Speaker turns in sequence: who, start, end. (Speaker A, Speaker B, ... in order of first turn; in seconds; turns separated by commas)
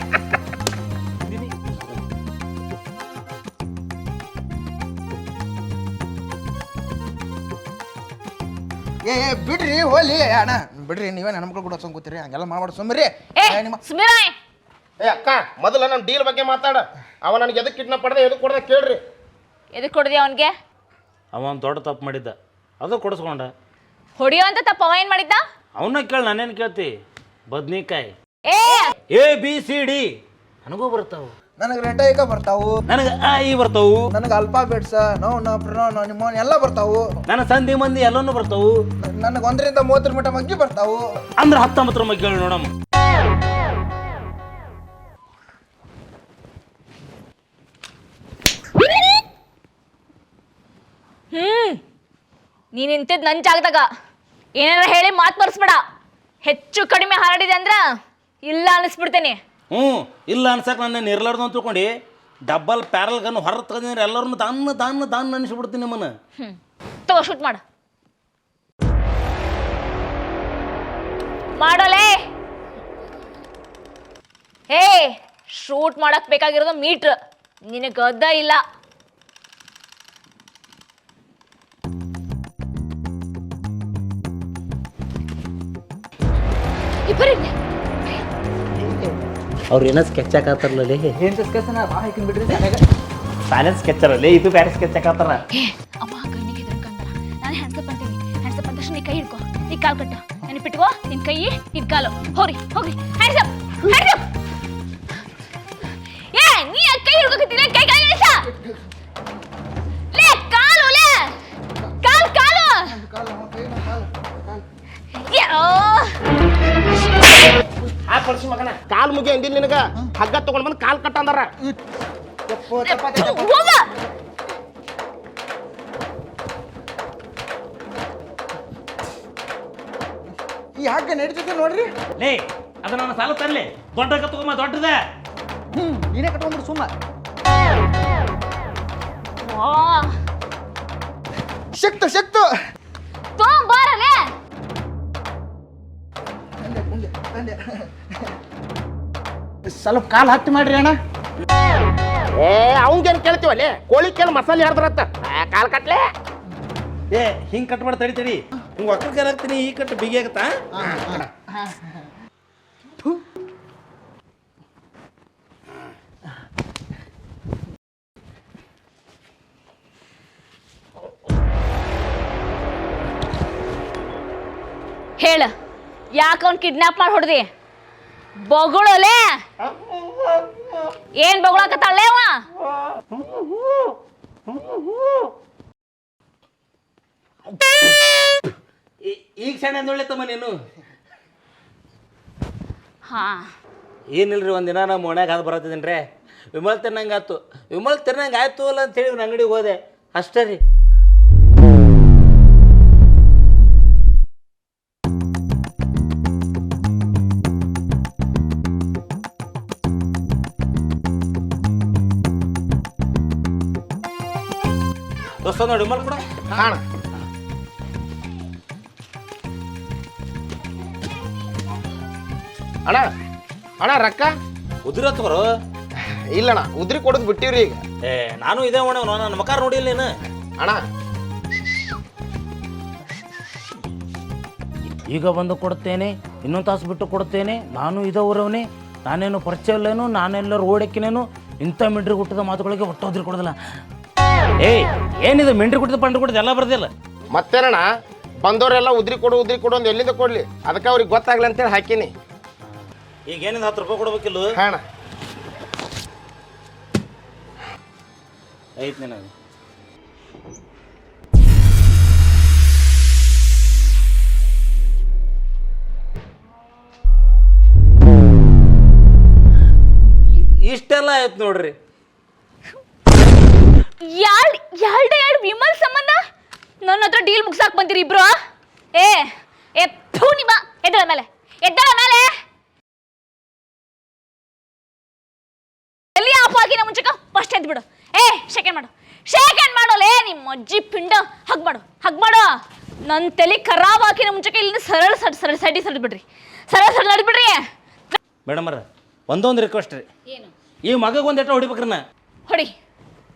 Speaker A: 9.0-13.8, Speaker B: 13.4-14.3, Speaker C: 15.0-19.0, Speaker B: 19.7-20.5, Speaker D: 21.3-23.5, Speaker B: 24.2-25.4, Speaker D: 25.8-26.9, Speaker D: 27.5-28.1, Speaker B: 28.4-28.9, Speaker D: 29.1-30.0, Speaker D: 30.6-31.3, Speaker A: 31.6-32.7, Speaker D: 32.9-34.0, Speaker A: 34.1-37.0, Speaker D: 37.3-38.7, Speaker A: 39.0-41.0, Speaker D: 41.4-42.7, Speaker B: 51.3-51.8, Speaker B: 52.7-53.9, Speaker B: 54.5-55.8, Speaker B: 56.4-57.9, Speaker B: 58.4-59.4, Speaker D: 59.7-61.9, Speaker D: 62.5-66.1, Speaker B: 66.4-67.6, Speaker B: 71.6-72.2, Speaker B: 74.7-77.2, Speaker B: 77.7-78.6, Speaker B: 87.0-87.5, Speaker D: 89.7-91.2, Speaker E: 91.2-92.8, Speaker D: 93.5-95.4, Speaker B: 95.5-104.2, Speaker B: 105.8-108.5, Speaker B: 110.1-111.3, Speaker B: 112.0-112.9, Speaker A: 112.9-114.6, Speaker B: 115.1-116.2, Speaker B: 116.9-117.4, Speaker C: 118.1-121.5, Speaker A: 122.5-123.5, Speaker B: 122.8-123.8, Speaker A: 130.8-131.9, Speaker D: 132.2-135.0, Speaker E: 135.7-136.9, Speaker B: 139.4-140.1, Speaker A: 141.7-142.4, Speaker B: 143.3-144.3, Speaker A: 146.6-147.6, Speaker A: 149.7-150.9, Speaker C: 152.3-156.1, Speaker D: 157.1-160.5, Speaker A: 160.7-161.9, Speaker B: 175.2-175.5, Speaker B: 176.1-177.5, Speaker B: 178.4-179.4, Speaker B: 181.2-182.4, Speaker D: 189.0-190.5, Speaker B: 193.1-193.5, Speaker D: 194.1-196.0, Speaker D: 196.5-200.6, Speaker D: 215.4-216.3, Speaker C: 216.5-216.8, Speaker C: 223.8-224.3, Speaker D: 224.8-225.4, Speaker C: 226.3-227.8, Speaker D: 228.0-230.1, Speaker D: 235.1-243.5, Speaker D: 244.6-246.9, Speaker C: 247.3-247.8, Speaker C: 248.4-252.1, Speaker D: 252.6-254.5, Speaker C: 254.6-254.8, Speaker D: 258.8-259.3, Speaker D: 270.4-271.7, Speaker B: 274.0-276.2, Speaker B: 276.8-278.4, Speaker B: 278.9-282.4, Speaker B: 286.1-298.2, Speaker D: 298.4-300.1, Speaker D: 300.9-302.0, Speaker B: 302.5-302.7